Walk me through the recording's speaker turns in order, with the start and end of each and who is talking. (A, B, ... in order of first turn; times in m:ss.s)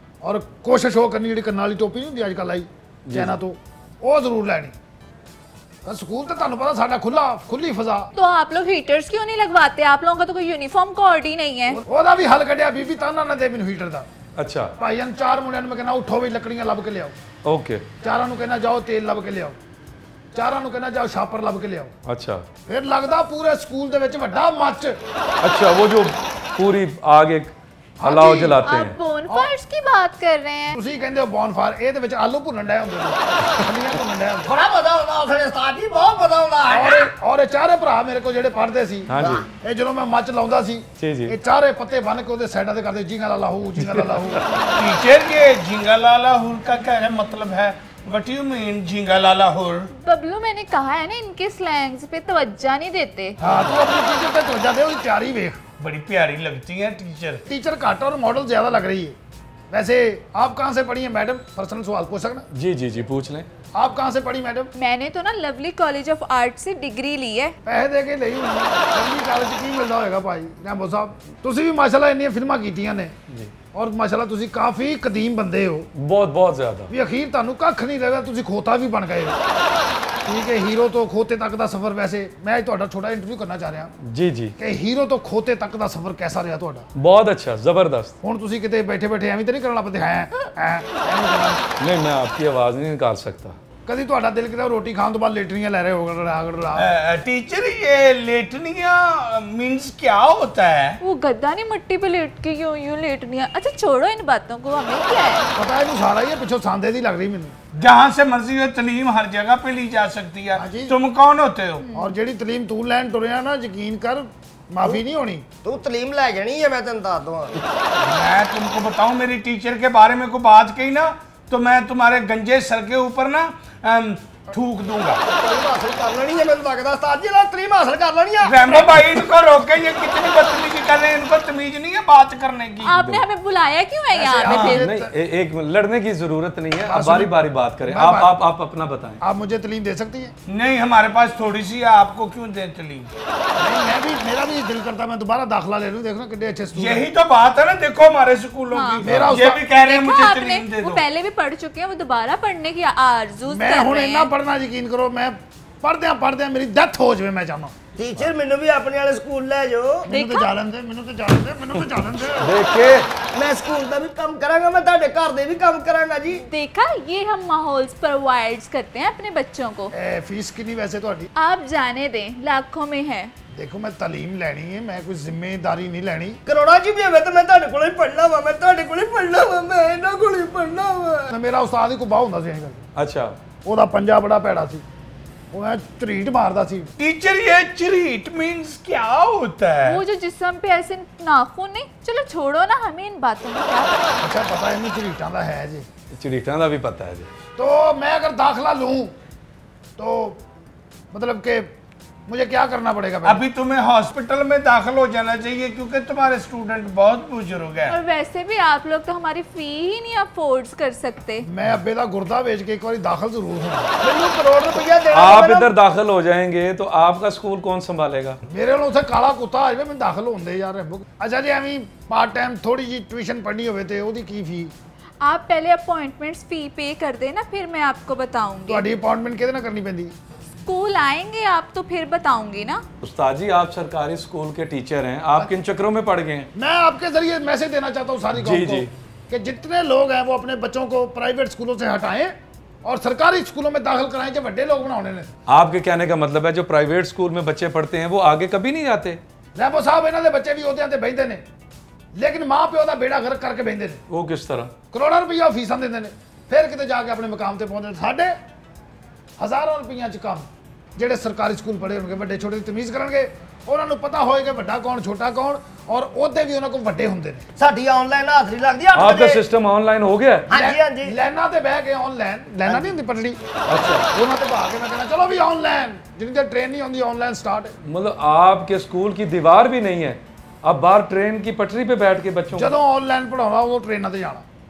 0:00.2-0:04.7 A
0:03.0-0:03.4 B
0:05.8-0:08.1 A
0:08.1-0:11.8 C
0:11.8-0:14.1 A
0:14.4-0:14.7 B
0:14.8-0:17.1 A
0:17.4-0:17.8 B
0:18.0-0:19.6 A
0:20.3-0:21.9 A
0:22.0-0:22.4 B
0:22.7-0:25.0 A
0:25.4-0:29.0 B
0:28.0-0:28.6 A
0:28.6-0:30.8 C
0:30.7-0:34.5 A
0:34.4-0:37.1 D
0:36.7-0:44.4 A
0:39.1-0:39.5 B
0:39.2-0:39.5 D
0:41.0-0:41.4 B
0:43.8-0:44.6 B
0:44.8-0:49.9 E
0:49.9-0:53.4 C
0:53.4-0:55.6 A
0:55.8-0:57.4 E
0:57.5-0:59.2 A
0:59.7-1:02.4 A
1:02.5-1:03.5 B
1:03.7-1:04.7 A
1:04.7-1:07.5 C
1:07.6-1:13.1 A
1:13.3-1:13.5 B
1:13.7-1:15.9 A
1:15.9-1:16.9 B
1:16.9-1:19.4 A
1:20.2-1:23.9 A
1:24.0-1:24.5 B
1:24.6-1:26.9 A
1:26.9-1:28.1 B
1:28.2-1:31.6 A
1:31.8-1:33.6 B
1:33.9-1:36.9 A
1:36.8-1:41.0 E
1:41.0-1:45.5 C
1:45.5-1:47.5 A
1:47.7-1:51.9 E
1:50.6-1:50.9 A
1:51.8-1:52.1 C
1:51.9-1:55.4 A
1:55.6-1:57.5 D
1:58.0-2:05.2 E
2:05.2-2:09.2 D
2:08.4-2:12.9 E
2:12.8-2:14.9 C
2:12.9-2:13.2 B
2:14.1-2:15.1 A
2:14.6-2:19.2 B
2:16.8-2:17.3 A
2:17.8-2:18.3 A
2:19.2-2:20.3 A
2:20.5-2:23.1 E
2:23.6-2:27.0 A
2:26.7-2:31.0 E
2:28.7-2:29.0 C
2:29.0-2:29.6 A
2:29.0-2:29.3 B
2:29.8-2:34.3 C
2:33.5-2:37.7 A
2:38.0-2:40.1 D
2:40.0-2:42.5 A
2:40.1-2:40.5 C
2:42.3-2:43.1 B
2:43.3-2:46.4 D
2:46.3-2:49.9 C
2:49.9-2:51.3 A
2:51.4-2:53.3 C
2:53.5-2:56.4 A
2:56.4-3:01.3 D
3:01.3-3:02.8 A
3:02.9-3:03.4 B
3:03.6-3:04.8 A
3:05.5-3:06.9 A
3:07.0-3:10.0 E
3:09.8-3:14.2 C
3:14.2-3:15.8 A
3:16.1-3:17.3 B
3:17.6-3:19.1 A
3:20.0-3:20.4 A
3:21.1-3:21.7 A
3:22.3-3:23.4 A
3:23.2-3:28.0 E
3:27.9-3:31.4 C
3:31.4-3:33.9 A
3:34.0-3:35.7 D
3:35.1-3:38.4 B
3:38.5-3:44.7 A
3:45.2-3:48.9 C
3:48.7-3:50.1 A
3:50.6-3:52.8 C
3:53.0-3:56.5 B
3:56.6-4:05.3 A
3:58.3-3:58.9 B
4:05.5-4:09.2 B
4:09.6-4:11.4 A
4:12.2-4:14.0 A
4:14.1-4:14.7 B
4:14.9-4:18.4 A
4:19.4-4:20.4 A
4:21.0-4:27.5 A
4:27.6-4:29.4 D
4:28.9-4:30.5 B
4:30.5-4:31.1 D
4:30.5-4:33.4 A
4:32.6-4:32.9 D
4:33.7-4:34.1 B
4:34.1-4:37.8 A
4:37.8-4:42.7 B
4:42.5-4:44.4 A